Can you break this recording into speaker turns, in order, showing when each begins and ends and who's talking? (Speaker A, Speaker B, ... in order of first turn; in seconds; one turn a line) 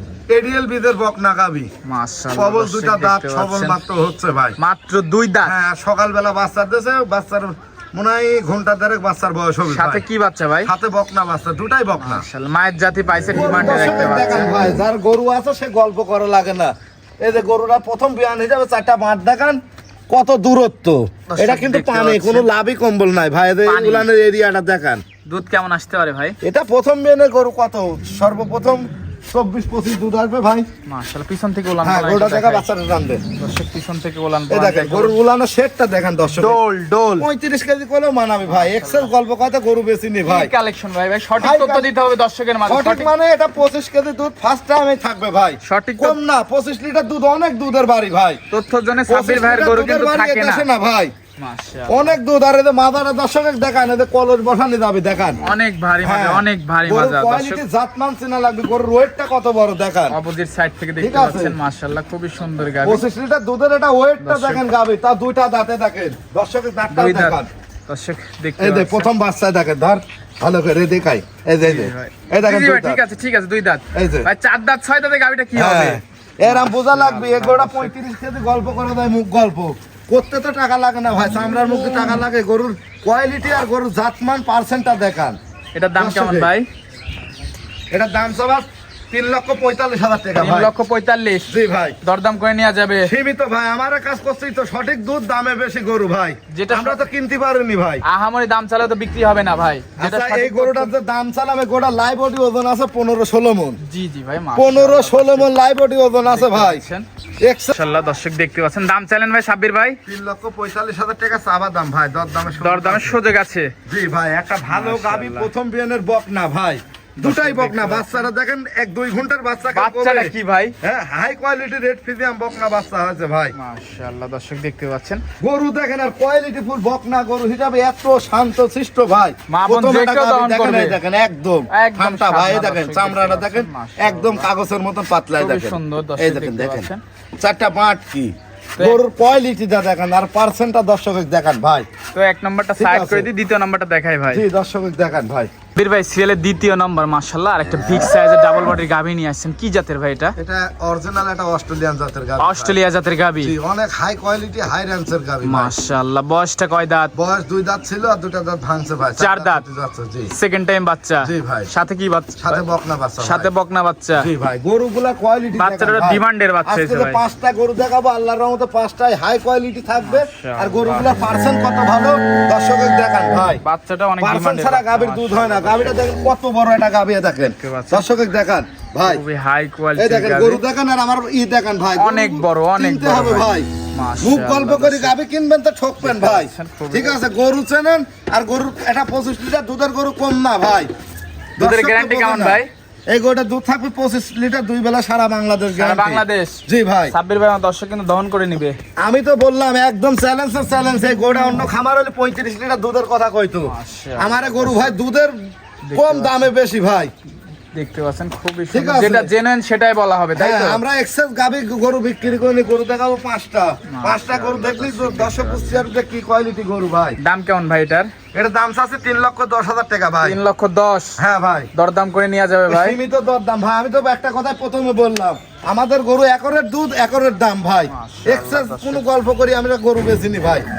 Speaker A: 0.3-1.7
Speaker B: 1.8-3.8
Speaker A: 2.3-4.5
Speaker B: 4.6-5.6
Speaker A: 5.4-10.0
Speaker B: 9.7-10.7
Speaker A: 10.6-12.2
Speaker B: 12.0-14.7
Speaker A: 13.3-25.0
Speaker B: 21.3-22.5
Speaker B: 23.6-24.1
Speaker B: 25.2-26.4
Speaker A: 26.4-30.7
Speaker B: 30.9-32.6
Speaker A: 31.8-33.2
Speaker B: 33.4-35.1
Speaker A: 34.5-36.6
Speaker B: 36.4-37.3
Speaker A: 37.2-40.5
Speaker B: 38.5-39.1
Speaker B: 40.2-43.1
Speaker A: 41.4-41.9
Speaker A: 42.7-48.4
Speaker B: 45.6-46.2
Speaker B: 48.5-50.7
Speaker A: 49.1-51.1
Speaker B: 51.4-52.2
Speaker A: 51.9-55.4
Speaker B: 55.4-57.6
Speaker A: 56.0-60.2
Speaker B: 60.1-63.0
Speaker A: 61.0-61.6
Speaker A: 62.8-67.5
Speaker B: 64.2-64.6
Speaker B: 66.9-69.1
Speaker A: 68.6-73.0
Speaker B: 71.6-77.9
Speaker A: 73.9-74.3
Speaker A: 75.5-85.4
Speaker B: 85.7-86.7
Speaker A: 86.0-86.5
Speaker A: 87.9-90.7
Speaker B: 90.3-93.1
Speaker A: 91.5-92.0
Speaker A: 93.0-98.0
Speaker B: 96.5-97.0
Speaker B: 98.0-100.9
Speaker A: 100.0-103.8
Speaker B: 103.8-105.5
Speaker A: 104.5-106.8
Speaker B: 106.2-107.0
Speaker A: 107.4-107.7
Speaker B: 107.7-110.0
Speaker A: 110.0-113.2
Speaker B: 112.6-113.7
Speaker A: 113.9-123.5
Speaker B: 114.6-115.5
Speaker B: 117.2-118.2
Speaker B: 119.7-120.7
Speaker B: 123.5-125.2
Speaker A: 125.4-141.9
Speaker B: 129.5-131.0
Speaker B: 131.7-134.5
Speaker B: 135.4-137.0
Speaker B: 142.1-144.4
Speaker A: 142.8-143.3
Speaker A: 144.3-145.5
Speaker B: 145.7-150.3
Speaker A: 150.4-152.8
Speaker B: 152.4-153.5
Speaker A: 153.4-155.7
Speaker B: 155.4-157.1
Speaker A: 157.1-160.3
Speaker B: 159.2-159.6
Speaker B: 160.3-162.6
Speaker A: 161.2-161.7
Speaker A: 162.4-163.5
Speaker B: 163.2-164.3
Speaker A: 164.2-173.6
Speaker B: 165.6-167.2
Speaker B: 170.0-171.2
Speaker B: 173.6-176.0
Speaker A: 174.2-179.2
Speaker B: 177.6-178.1
Speaker B: 179.0-180.6
Speaker A: 180.0-183.7
Speaker B: 181.9-185.1
Speaker A: 184.2-190.9
Speaker B: 186.0-187.2
Speaker B: 191.6-192.7
Speaker A: 191.6-197.1
Speaker B: 195.8-198.8
Speaker A: 199.0-205.4
Speaker B: 203.7-204.9
Speaker B: 205.8-206.4
Speaker A: 205.9-207.1
Speaker B: 207.7-210.8
Speaker A: 208.7-209.3
Speaker A: 210.3-217.2
Speaker B: 213.9-215.8
Speaker B: 217.2-218.1
Speaker A: 218.3-220.4
Speaker B: 220.2-221.2
Speaker A: 221.2-221.7
Speaker B: 221.7-223.0
Speaker A: 222.7-230.7
Speaker B: 227.9-229.0